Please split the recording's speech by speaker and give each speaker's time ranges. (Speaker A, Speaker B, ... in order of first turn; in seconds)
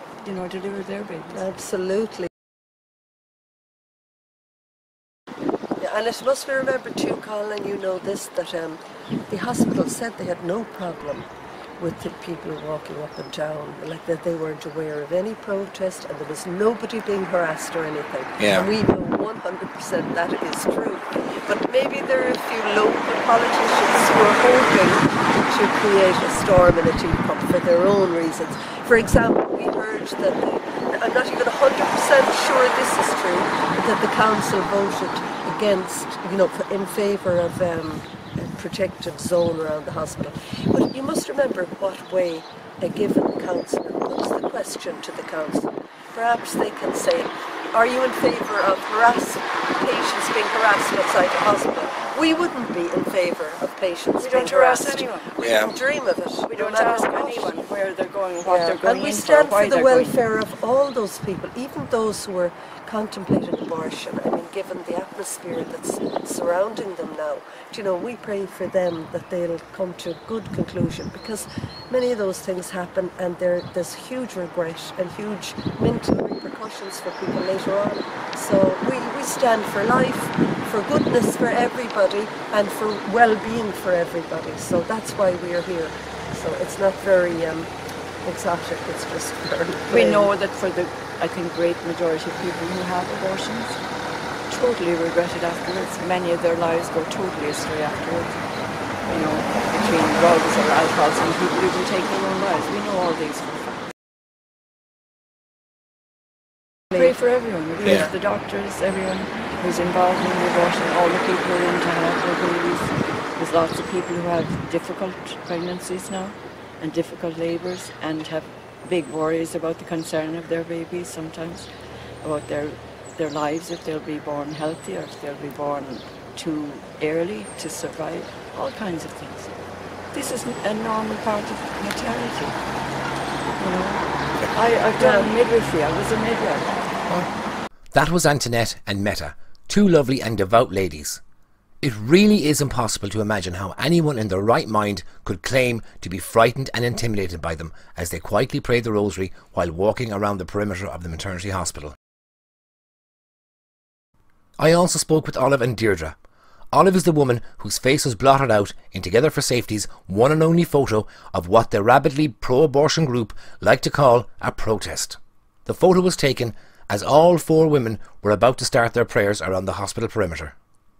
Speaker A: 0.2-1.4, 54.2-55.4, 56.4-60.2, 89.9-93.8, 94.5-98.4, 99.1-103.8, 106.9-121.7, 122.2-129.6, 130.1-132.6, 133.6-136.7
Speaker B: 1.3-2.3, 5.8-11.3, 11.8-57.5, 58.4-87.7, 88.2-90.3, 107.8-108.1, 135.0-135.3
Speaker C: 18.4-18.7, 55.4-55.7, 137.9-141.2, 141.8-152.0, 154.6-156.2, 156.7-170.5